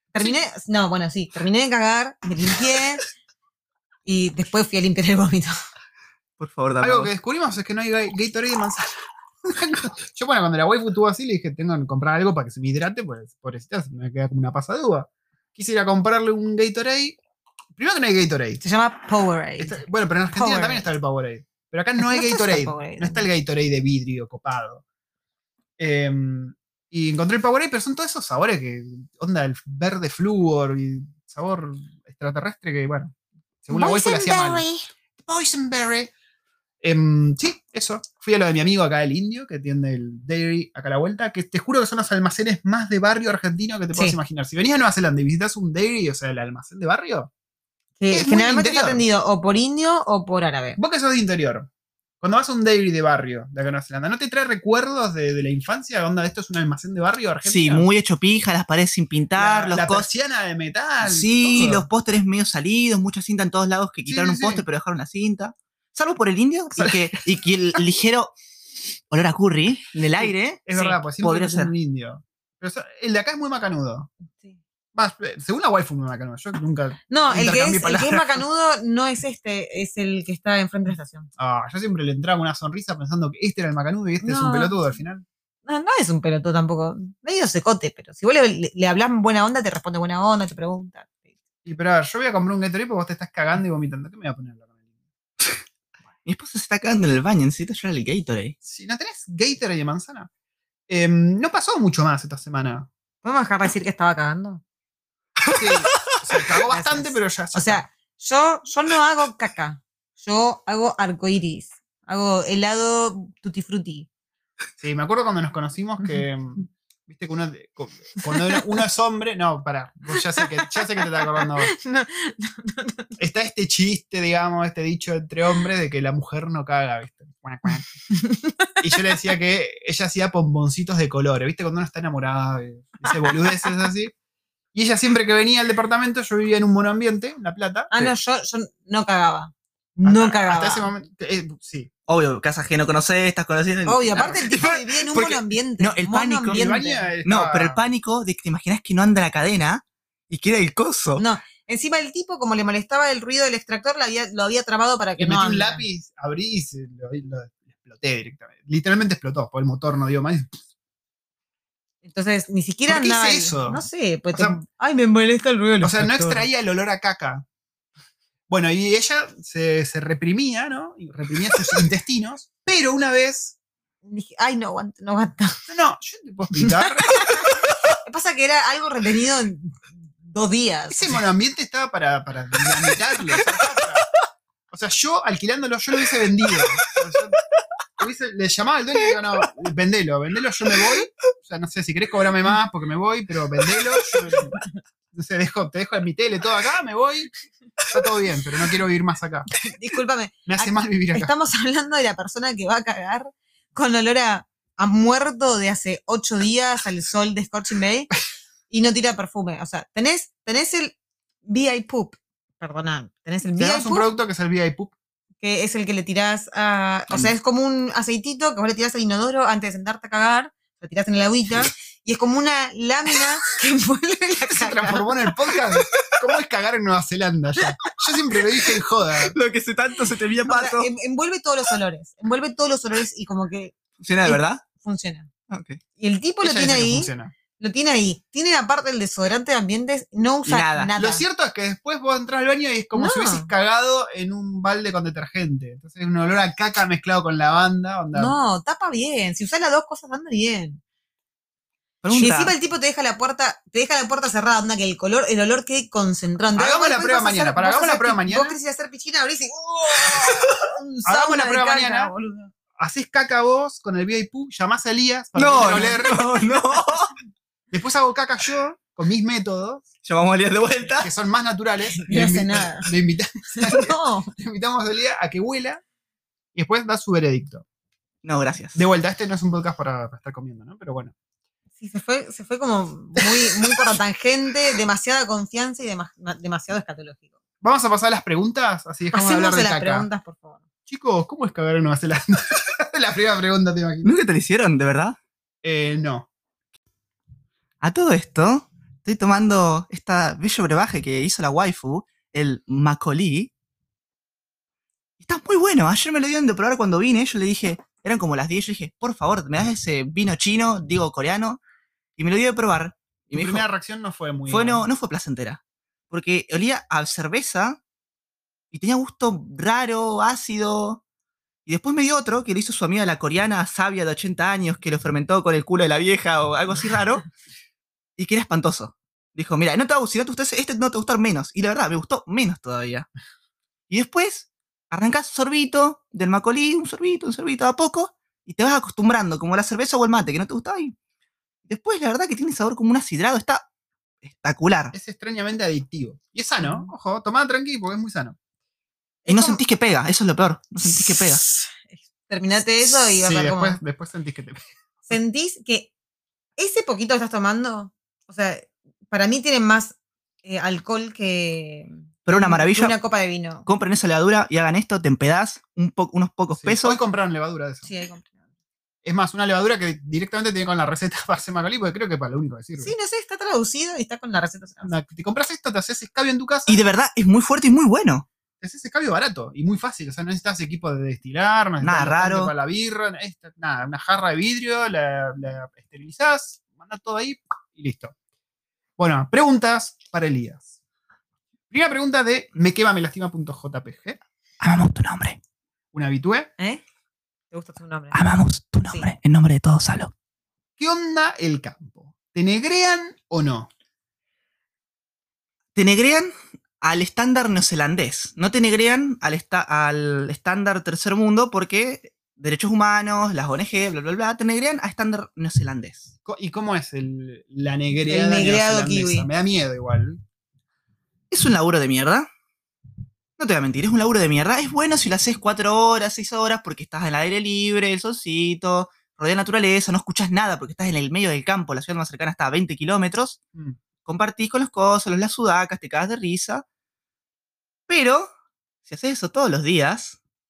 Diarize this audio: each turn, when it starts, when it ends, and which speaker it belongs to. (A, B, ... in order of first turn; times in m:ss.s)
0:00.1-0:03.0 A
0:04.0-0:05.5 A
0:06.4-0:07.1 B
0:06.8-0:17.2 C
0:17.7-0:18.6 C
0:18.6-0:20.9 A
0:19.6-0:24.8 C
0:22.0-0:23.3 A
0:25.8-0:36.1 C
0:33.7-0:34.9 A
0:36.8-0:47.3 C
0:48.0-0:50.8 A
0:48.1-0:49.0 C
0:50.8-0:51.7 C
0:52.2-0:57.9 C
0:57.4-1:00.1 B
0:59.4-1:01.9 C
1:01.0-1:08.3 B
1:04.0-1:04.6 C
1:06.8-1:07.2 C
1:09.1-1:11.7 B
1:10.2-1:14.1 C
1:14.9-1:18.4 C
1:17.1-1:21.3 A
1:21.4-1:25.2 C
1:24.2-1:24.8 A
1:25.6-1:31.1 A
1:31.6-1:34.7 C
1:36.2-1:38.6 B
1:38.6-1:40.3 C
1:40.9-1:42.9 C
1:43.2-1:44.6 A
1:45.5-1:46.2 B
1:45.5-1:47.8 C
1:46.7-1:54.1 A
1:54.8-2:01.7 C
1:58.3-1:58.6 A
2:00.1-2:03.2 A
2:03.2-2:07.9 C
2:08.1-2:09.0 A
2:08.8-2:14.1 C
2:14.7-2:17.9 C
2:17.9-2:20.9 A
2:20.0-2:21.9 C
2:22.1-2:26.7 B
2:23.8-2:27.1 A
2:26.5-2:27.8 C
2:27.2-2:31.2 B
2:31.2-2:35.8 A
2:35.2-2:40.6 C
2:42.0-2:46.5 A
2:42.9-2:44.6 C
2:45.8-2:47.4 C
2:48.5-2:53.5 C
2:54.0-2:55.6 A
2:55.7-2:57.5 C
2:56.6-2:57.5 A
2:58.0-3:01.2 A
3:00.9-3:04.0 C
3:04.7-3:07.4 C
3:06.6-3:06.8 B
3:08.0-3:14.6 C
3:09.0-3:09.5 B
3:13.7-3:14.4 B
3:15.1-3:17.3 C
3:17.9-3:19.5 C
3:19.7-3:28.1 A
3:20.4-3:21.3 C
3:28.7-3:34.1 A
3:33.6-3:34.9 C
3:35.4-3:45.1 A
3:44.5-3:49.4 C
3:45.9-3:46.2 B
3:48.3-3:50.9 B
3:50.4-3:55.3 A
3:54.0-3:54.6 B
3:55.5-3:55.8 B
3:56.0-4:01.2 A
3:56.4-3:57.3 C
4:00.4-4:00.9 B
4:01.0-4:08.3 C
4:02.9-4:03.5 A
4:08.1-4:10.8 A
4:12.0-4:12.5 B
4:12.1-4:22.5 A
4:16.5-4:18.6 C
4:21.0-4:22.1 C
4:22.8-4:26.2 C
4:25.4-4:27.1 B
4:25.4-4:26.9 A
4:27.7-4:29.9 C
4:30.0-4:31.1 B
4:31.0-4:35.8 C
4:31.9-4:32.9 A
4:33.5-4:34.3 A
4:36.5-4:37.6 C
4:38.2-4:38.8 B
4:38.7-4:41.1 C
4:41.8-4:47.2 A
4:47.6-4:50.1 C
4:49.1-4:50.6 A
4:50.9-4:54.2 C
4:54.0-4:55.2 B
4:55.6-4:56.3 C
4:57.8-5:03.5 B
5:05.2-5:11.6 B
5:12.2-5:13.7 B
5:13.3-5:14.9 C
5:14.5-5:17.8 B
5:18.7-5:21.0 B
5:21.6-5:27.3 B
5:28.2-5:33.1 B
5:33.9-5:40.9 B
5:41.7-5:43.6 B
5:44.2-5:44.9 B
5:44.9-5:48.4 C
5:46.6-5:46.9 A
5:49.2-5:49.6 A
5:49.3-5:51.4 B
5:50.9-5:53.8 A
5:52.8-5:54.6 C
5:55.0-5:55.9 A
5:56.6-6:03.7 A
6:02.2-6:02.9 B
6:03.6-6:07.0 B
6:06.5-6:07.9 C
6:07.8-6:08.3 A
6:09.0-6:12.9 C
6:12.8-6:14.9 A
6:14.8-6:16.8 C
6:16.7-6:18.2 B
6:18.6-6:28.1 C
6:21.8-6:22.5 B
6:29.0-6:30.7 C
6:31.7-6:34.2 C
6:34.6-6:35.4 B
6:35.9-6:36.5 C
6:37.5-6:38.2 A
6:38.1-6:40.1 B
6:40.8-6:43.7 C
6:45.7-6:56.1 B
6:56.2-7:00.2 C
6:58.1-6:59.3 A
7:01.3-7:02.3 B
7:03.4-7:13.4 B
7:14.0-7:16.6 B
7:17.9-7:18.3 B
7:18.8-7:20.2 B